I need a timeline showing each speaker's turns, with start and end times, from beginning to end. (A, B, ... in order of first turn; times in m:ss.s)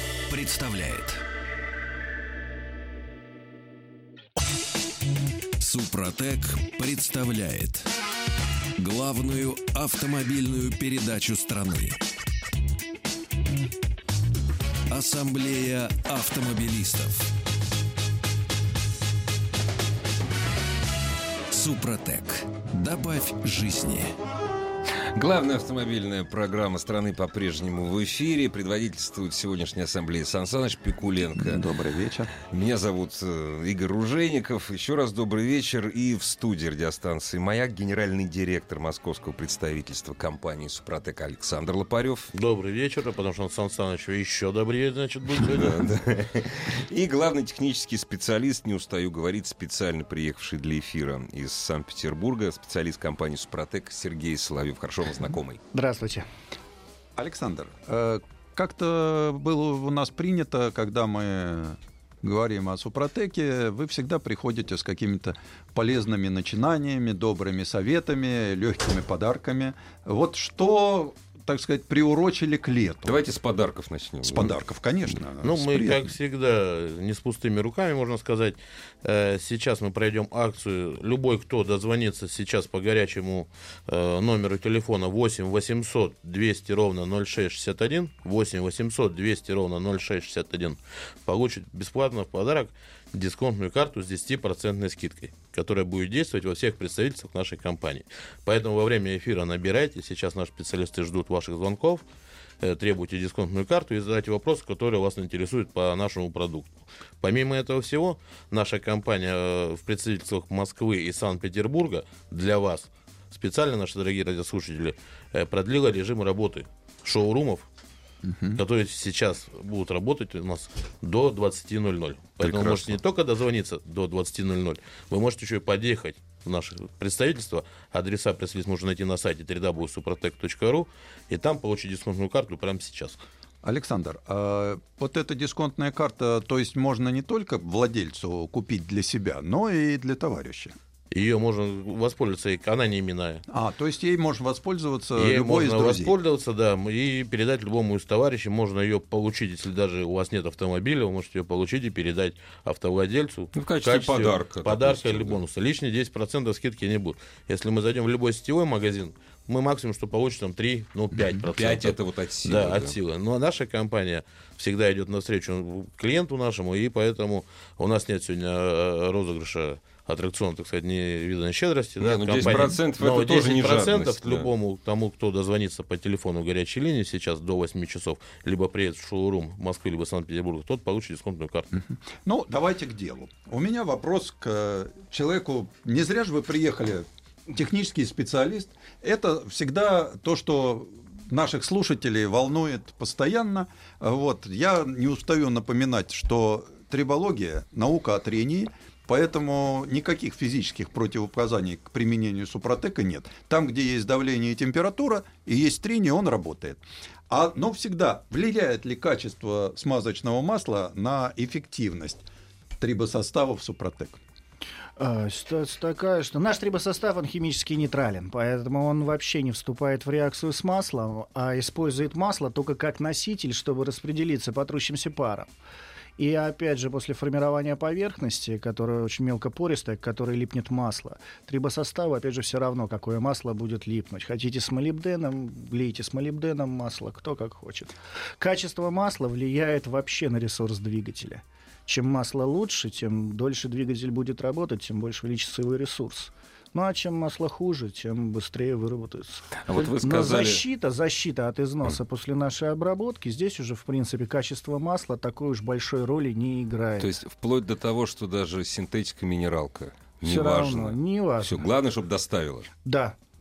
0:00.3-0:01.2 A
0:05.6-0:07.9 A
0:08.8-0:12.0 A
0:14.9-0:17.3 A
0:21.5-0:24.1 A
0:25.1-0:31.6 B
0:31.3-0:32.3 C
0:32.4-0:42.3 B
0:42.3-0:45.9 D
0:45.4-0:55.6 B
0:55.7-0:56.2 E
0:57.2-1:13.2 C
1:13.0-1:14.6 B
1:14.2-1:16.1 C
1:15.4-1:42.0 D
1:42.6-1:57.6 D
1:58.2-1:58.6 C
1:58.6-2:13.2 D
2:02.4-2:03.0 B
2:13.6-2:20.8 C
2:21.1-2:23.4 D
2:23.5-2:26.1 C
2:25.2-3:01.8 D
2:33.6-2:35.4 B
2:41.1-2:41.4 C
2:41.6-2:42.9 B
2:52.0-2:54.5 B
3:01.7-3:32.2 C
3:32.8-3:34.2 C
3:35.0-3:45.5 E
3:46.2-4:17.1 E
4:09.6-4:10.6 B
4:17.0-4:22.7 B
4:20.2-4:21.6 E
4:22.8-4:23.2 E